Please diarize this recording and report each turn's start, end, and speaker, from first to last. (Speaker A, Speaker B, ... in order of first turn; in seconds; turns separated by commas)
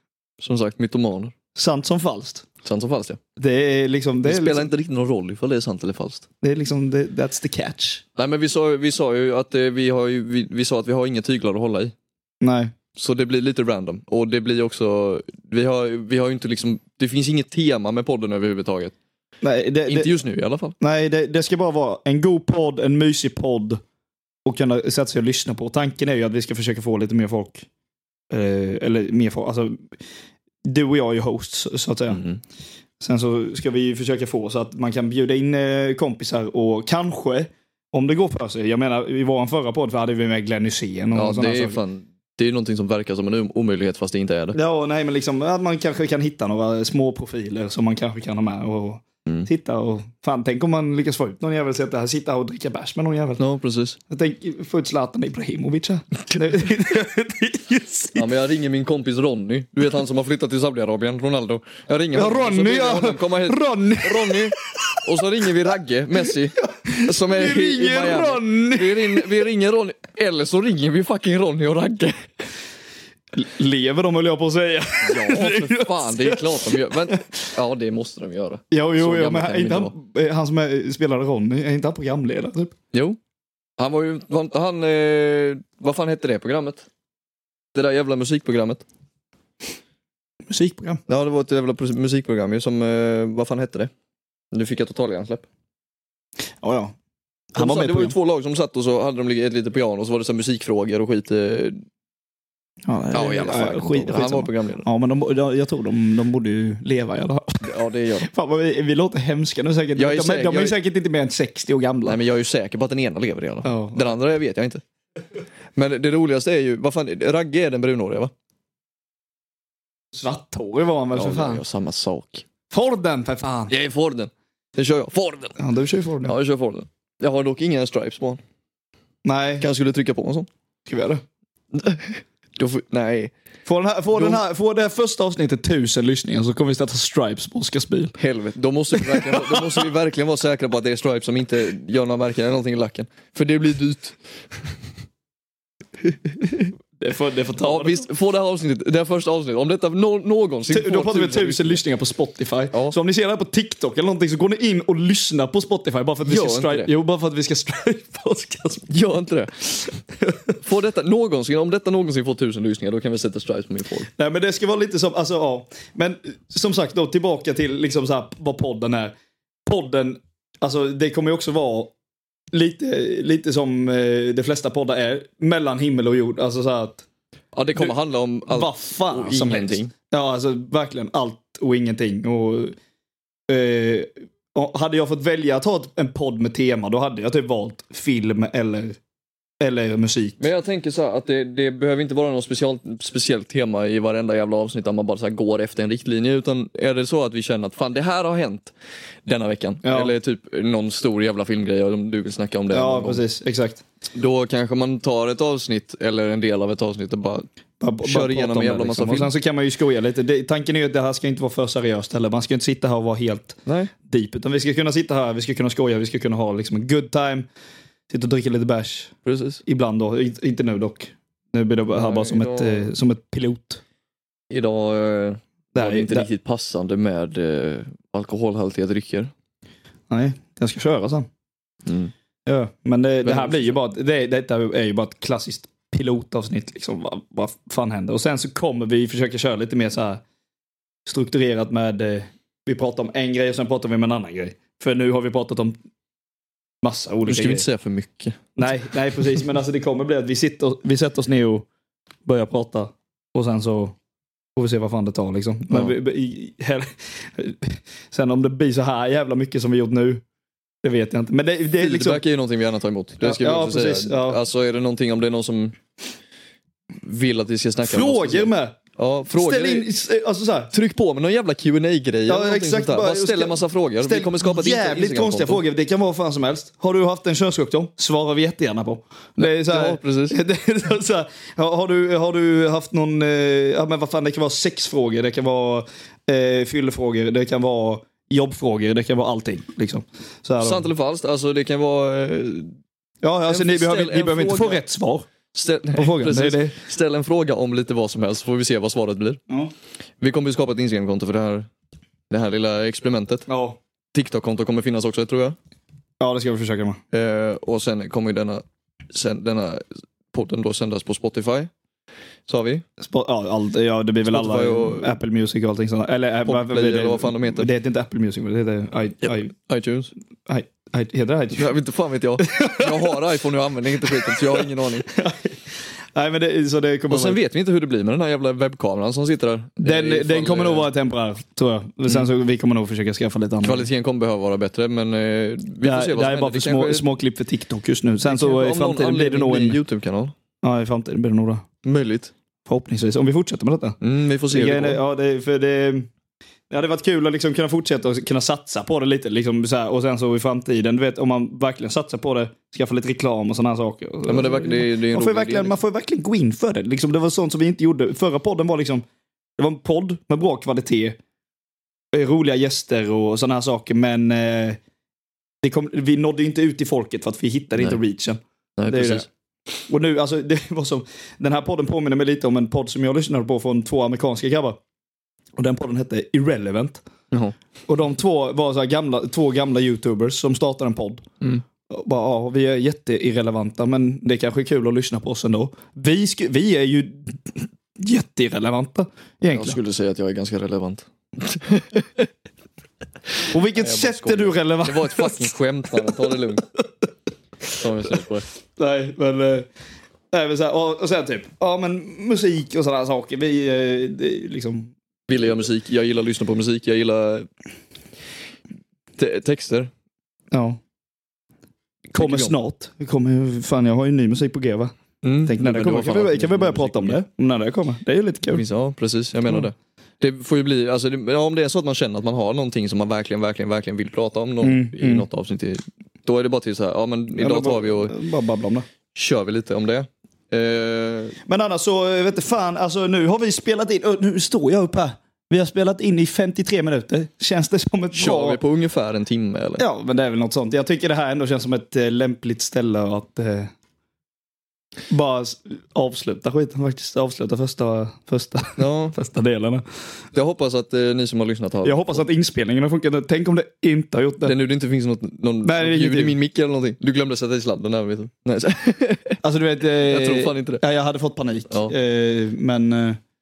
Speaker A: 0.4-1.3, Speaker B: 1.5-2.5, Speaker A: 2.6-3.2, Speaker B: 3.4-4.7, Speaker A: 4.2-6.2, Speaker B: 6.4-8.0, Speaker A: 8.2-11.9, Speaker B: 12.4-12.7, Speaker A: 12.9-18.9, Speaker B: 19.4-20.1, Speaker A: 19.9-20.8, Speaker B: 20.8-23.8, Speaker B: 24.4-27.6, Speaker B: 28.3-29.9, Speaker B: 30.6-32.2, Speaker A: 32.1-32.4, Speaker B: 33.0-41.8, Speaker A: 41.1-44.6, Speaker B: 44.5-53.4, Speaker A: 53.4-54.0, Speaker B: 54.1-58.3, Speaker A: 58.1-72.2, Speaker B: 62.1-65.0, Speaker B: 66.7-69.4, Speaker B: 73.3-77.2, Speaker A: 75.0-79.9, Speaker B: 78.7-82.7, Speaker A: 82.9-83.2, Speaker A: 83.8-86.9, Speaker A: 87.7-88.8, Speaker B: 90.5-91.0, Speaker A: 91.1-93.9, Speaker A: 94.5-95.5, Speaker B: 96.6-96.9, Speaker B: 97.5-98.1, Speaker A: 97.5-101.8, Speaker B: 102.8-107.7, Speaker A: 103.1-104.8, Speaker A: 107.6-108.3, Speaker B: 108.2-112.2, Speaker A: 110.0-110.8, Speaker A: 112.0-114.8, Speaker B: 113.6-114.1, Speaker A: 115.8-118.3, Speaker B: 120.1-121.6, Speaker A: 121.1-122.4, Speaker B: 122.7-123.7, Speaker A: 123.7-125.6, Speaker B: 125.6-126.3, Speaker A: 126.2-128.4, Speaker B: 129.2-129.7, Speaker A: 129.6-130.5, Speaker B: 130.9-131.2, Speaker A: 131.7-133.3, Speaker B: 133.7-138.2, Speaker A: 134.1-134.4, Speaker A: 138.2-144.2, Speaker B: 138.9-139.9, Speaker B: 147.0-148.0, Speaker A: 147.6-151.8, Speaker B: 150.7-158.9, Speaker A: 156.2-156.9, Speaker A: 158.9-159.9, Speaker A: 160.6-164.1, Speaker B: 164.2-169.1, Speaker B: 169.7-171.9, Speaker B: 172.5-177.1, Speaker A: 177.5-179.9, Speaker B: 178.5-182.8, Speaker B: 183.5-189.0, Speaker B: 189.6-190.4, Speaker A: 190.4-198.7, Speaker A: 199.2-203.2, Speaker B: 199.8-200.1, Speaker B: 202.7-203.8, Speaker A: 204.1-207.4, Speaker B: 207.8-217.5, Speaker A: 208.0-209.3, Speaker A: 213.7-213.9, Speaker B: 218.1-219.1, Speaker A: 219.2-219.6, Speaker B: 219.7-223.8, Speaker A: 221.9-222.9, Speaker A: 224.5-229.3, Speaker B: 225.7-226.3, Speaker B: 230.1-231.3, Speaker A: 231.8-232.1, Speaker B: 232.4-240.2, Speaker A: 233.2-233.7, Speaker B: 241.1-245.7, Speaker B: 246.8-247.6, Speaker A: 247.2-248.8, Speaker B: 248.6-251.7, Speaker B: 252.2-253.9, Speaker B: 254.6-260.2, Speaker B: 260.8-262.2, Speaker A: 261.8-265.8, Speaker B: 263.2-264.4, Speaker A: 267.0-269.9, Speaker B: 267.8-268.8, Speaker B: 269.3-270.7, Speaker A: 270.7-275.6, Speaker B: 272.3-290.8, Speaker A: 279.4-280.4, Speaker A: 290.6-292.7, Speaker B: 293.2-295.3, Speaker A: 293.5-294.8, Speaker A: 295.5-299.4, Speaker B: 295.9-296.7, Speaker A: 300.2-301.7, Speaker A: 302.3-303.5, Speaker B: 303.5-303.8, Speaker A: 304.1-305.6, Speaker B: 306.2-307.0, Speaker A: 307.1-311.7, Speaker A: 312.5-312.8, Speaker B: 313.0-319.5, Speaker A: 314.3-315.1, Speaker A: 316.4-317.7, Speaker A: 319.2-320.1, Speaker B: 320.5-321.7, Speaker A: 321.5-325.1, Speaker B: 322.4-323.4, Speaker B: 324.0-327.4, Speaker A: 327.1-330.9, Speaker B: 329.8-333.9, Speaker A: 333.6-337.0, Speaker B: 335.8-339.8, Speaker A: 338.2-340.3, Speaker B: 340.6-341.6, Speaker A: 341.8-342.3, Speaker B: 342.7-344.0, Speaker A: 344.0-345.0, Speaker B: 344.5-346.1, Speaker B: 346.7-359.0, Speaker A: 354.3-355.8, Speaker B: 359.6-361.2, Speaker B: 362.1-364.8, Speaker B: 365.6-369.3, Speaker A: 368.8-369.3, Speaker B: 369.9-374.8, Speaker B: 375.6-377.0, Speaker B: 377.9-381.2, Speaker B: 381.9-389.8, Speaker A: 389.5-392.3, Speaker B: 393.5-395.5, Speaker A: 393.8-396.7, Speaker A: 397.7-398.5, Speaker B: 398.8-399.7, Speaker B: 400.3-404.9, Speaker A: 405.3-407.5, Speaker A: 409.2-409.9, Speaker B: 410.5-410.8, Speaker A: 412.1-412.5, Speaker B: 412.1-414.9, Speaker A: 415.2-417.2, Speaker B: 415.4-418.6, Speaker A: 418.5-428.1, Speaker B: 424.6-425.2, Speaker B: 427.4-428.9, Speaker A: 429.1-431.4, Speaker B: 431.4-438.6, Speaker A: 438.1-439.8, Speaker B: 439.8-443.7, Speaker B: 445.1-449.8, Speaker A: 448.8-449.1, Speaker A: 450.3-452.2, Speaker B: 451.8-454.5, Speaker A: 454.4-459.4, Speaker B: 455.6-456.4, Speaker B: 459.4-463.2, Speaker A: 460.0-460.8